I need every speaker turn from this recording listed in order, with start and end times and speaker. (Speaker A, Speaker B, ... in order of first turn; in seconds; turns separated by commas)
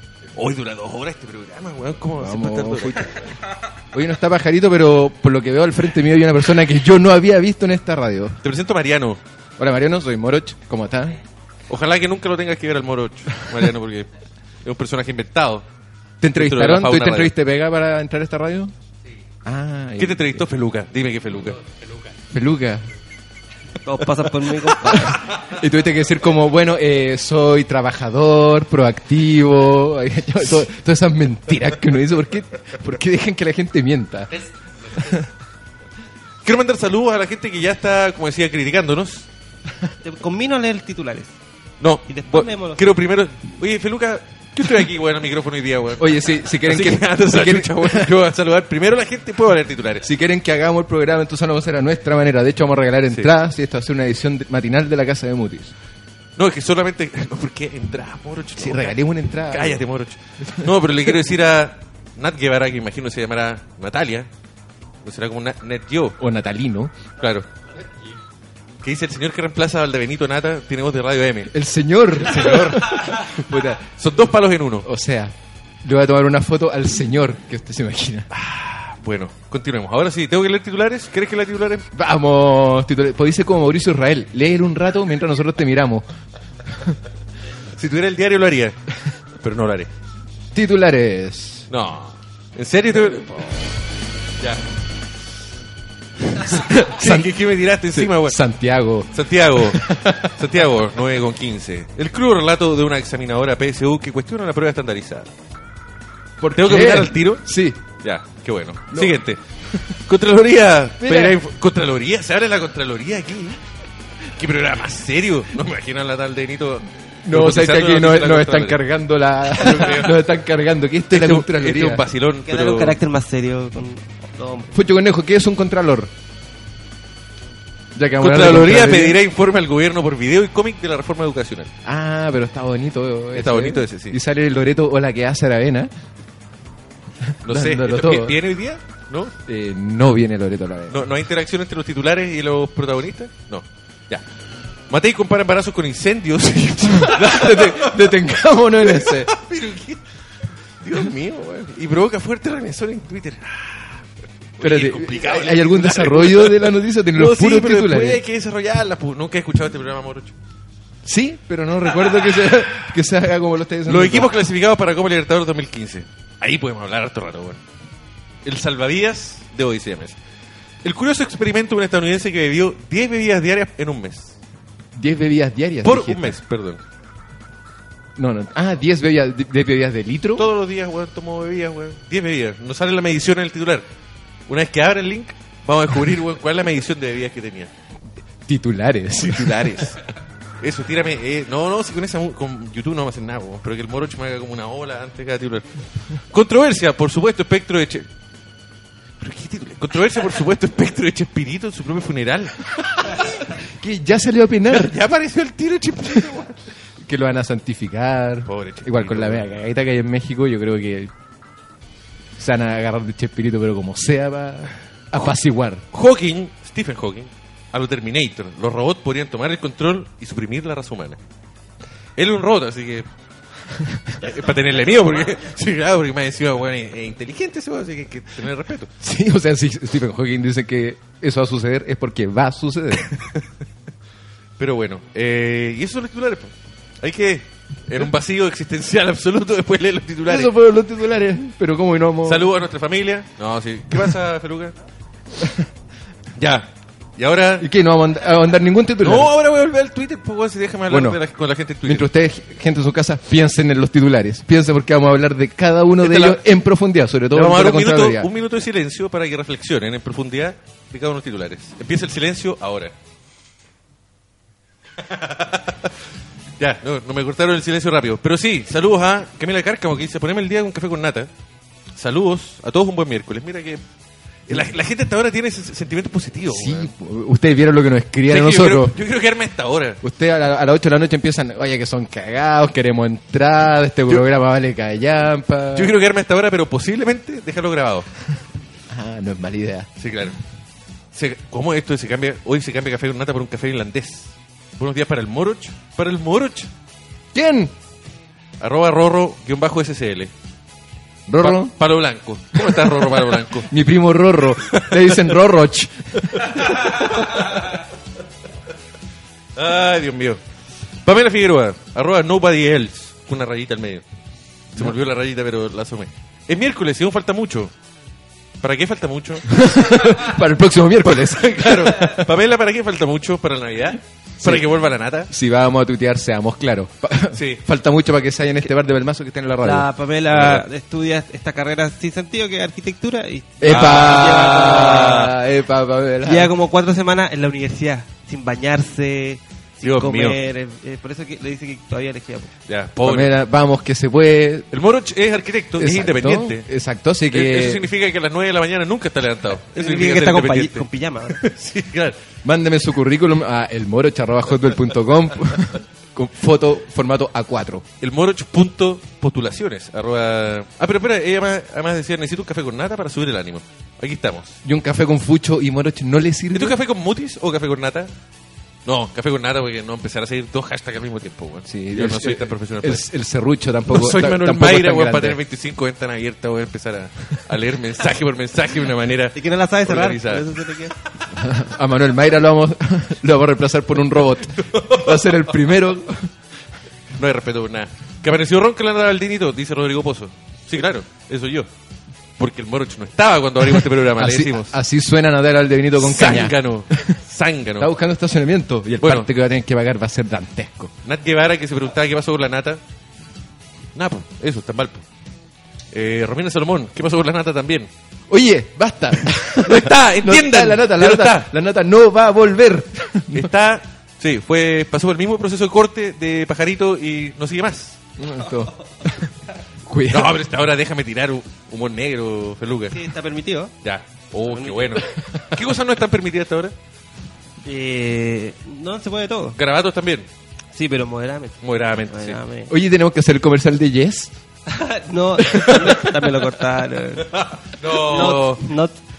Speaker A: 0.3-3.2, Speaker B: 2.2-3.3, Speaker B: 3.9-8.4, Speaker A: 8.4-9.2, Speaker B: 9.6-11.2, Speaker A: 11.7-14.1, Speaker A: 14.6-15.6, Speaker B: 16.2-18.7, Speaker A: 16.3-17.3, Speaker B: 19.4-20.4, Speaker A: 20.0-21.6, Speaker B: 22.3-22.9, Speaker C: 23.8-25.2, Speaker A: 24.9-25.4, Speaker B: 25.4-34.3, Speaker A: 36.4-39.2, Speaker C: 40.0-41.3, Speaker A: 41.8-50.1, Speaker C: 42.1-42.9, Speaker B: 46.0-48.1, Speaker B: 50.0-55.7, Speaker A: 56.4-64.3, Speaker B: 58.6-59.8, Speaker A: 65.0-66.2, Speaker B: 66.2-66.9, Speaker A: 67.2-67.5, Speaker A: 68.8-71.5, Speaker B: 71.5-73.8, Speaker A: 72.2-74.8, Speaker B: 74.8-78.3, Speaker A: 78.3-81.9, Speaker B: 81.9-86.0, Speaker A: 87.8-88.8, Speaker A: 89.4-89.9, Speaker B: 90.5-91.7, Speaker A: 91.7-93.5, Speaker A: 96.3-98.4, Speaker B: 96.4-97.3, Speaker B: 97.9-100.3, Speaker A: 99.1-105.3, Speaker B: 106.4-107.8, Speaker A: 106.5-107.5, Speaker A: 108.0-113.6, Speaker B: 108.9-110.0, Speaker B: 111.0-111.4, Speaker A: 114.3-118.8, Speaker B: 117.2-122.0, Speaker A: 119.5-120.2, Speaker A: 121.1-123.0, Speaker C: 122.5-124.7, Speaker B: 124.7-126.1, Speaker B: 128.0-129.2, Speaker A: 128.2-131.7, Speaker B: 131.8-135.9, Speaker A: 133.3-134.2, Speaker B: 137.2-138.4, Speaker A: 137.4-139.3, Speaker B: 139.4-141.0, Speaker A: 140.9-144.2, Speaker A: 144.9-148.1, Speaker B: 146.9-149.3, Speaker A: 148.8-150.0, Speaker A: 150.8-153.9, Speaker A: 154.6-160.3, Speaker B: 154.6-158.2, Speaker B: 161.0-164.3, Speaker A: 162.0-162.7, Speaker A: 163.9-167.6, Speaker A: 168.4-170.2, Speaker A: 170.8-174.3, Speaker B: 174.9-176.4, Speaker A: 175.8-176.8, Speaker B: 178.2-180.4, Speaker A: 180.3-183.8, Speaker A: 184.5-187.7, Speaker B: 188.5-189.9, Speaker A: 189.2-190.0, Speaker A: 190.6-198.1, Speaker A: 199.2-202.6, Speaker B: 203.0-204.9, Speaker A: 204.7-206.6, Speaker B: 207.0-211.1, Speaker A: 208.5-209.4, Speaker B: 212.4-215.8, Speaker A: 215.9-221.2, Speaker A: 222.2-223.1, Speaker B: 223.7-224.1, Speaker A: 224.2-228.9, Speaker B: 229.0-233.1, Speaker A: 234.6-240.5, Speaker B: 240.2-242.5, Speaker A: 242.2-244.7, Speaker B: 245.4-245.7, Speaker A: 246.4-247.7, Speaker B: 247.6-249.3, Speaker A: 249.0-252.1, Speaker B: 250.9-251.2, Speaker B: 251.8-258.3, Speaker A: 256.0-256.4, Speaker A: 257.3-262.9, Speaker A: 265.0-265.9, Speaker A: 266.6-271.3, Speaker A: 271.9-273.8, Speaker A: 274.5-276.9, Speaker B: 276.5-279.0, Speaker A: 278.3-280.0, Speaker B: 280.0-285.9, Speaker A: 285.7-288.1, Speaker B: 288.9-289.9, Speaker A: 290.0-290.4, Speaker A: 291.1-296.7, Speaker B: 297.3-297.7, Speaker A: 298.6-300.3, Speaker B: 301.3-301.7, Speaker A: 301.4-303.7, Speaker B: 302.6-306.9, Speaker A: 304.7-305.3, Speaker A: 306.3-307.8, Speaker A: 309.6-310.4, Speaker A: 311.0-314.0, Speaker A: 314.7-317.7, Speaker A: 318.6-319.6, Speaker B: 319.5-322.3, Speaker A: 321.1-325.3, Speaker B: 324.4-324.7, Speaker B: 325.3-329.9, Speaker A: 327.3-327.6, Speaker C: 329.6-335.2, Speaker B: 333.6-336.5, Speaker A: 333.6-335.3, Speaker C: 336.2-342.5, Speaker A: 339.8-340.4, Speaker A: 342.7-343.4, Speaker B: 343.0-344.7, Speaker A: 344.7-346.7, Speaker B: 345.8-347.8, Speaker A: 347.3-352.1, Speaker C: 349.7-351.4, Speaker B: 352.4-357.8, Speaker A: 358.0-364.5, Speaker B: 364.6-366.8, Speaker A: 366.5-368.1, Speaker A: 368.9-373.1, Speaker B: 371.7-375.4, Speaker A: 373.9-380.5, Speaker C: 379.3-380.9, Speaker B: 381.4-386.3, Speaker A: 384.5-385.5, Speaker A: 387.2-391.7, Speaker A: 392.4-394.8, Speaker B: 394.1-397.2, Speaker A: 396.0-397.9, Speaker B: 397.8-400.9, Speaker A: 399.0-399.3, Speaker A: 401.0-402.8, Speaker A: 403.9-405.0, Speaker A: 405.9-407.9, Speaker B: 408.3-413.5, Speaker A: 409.6-411.5, Speaker A: 413.3-418.0, Speaker B: 418.2-419.3, Speaker B: 419.8-420.3, Speaker A: 420.1-423.0, Speaker C: 422.9-423.7, Speaker A: 423.8-426.7, Speaker C: 424.5-425.0, Speaker B: 425.1-425.4, Speaker C: 427.6-429.6, Speaker A: 429.6-430.2, Speaker C: 430.7-432.7, Speaker A: 431.6-432.4, Speaker B: 432.7-434.3, Speaker C: 434.7-437.3, Speaker B: 435.6-435.9, Speaker A: 437.3-438.7, Speaker C: 437.9-439.0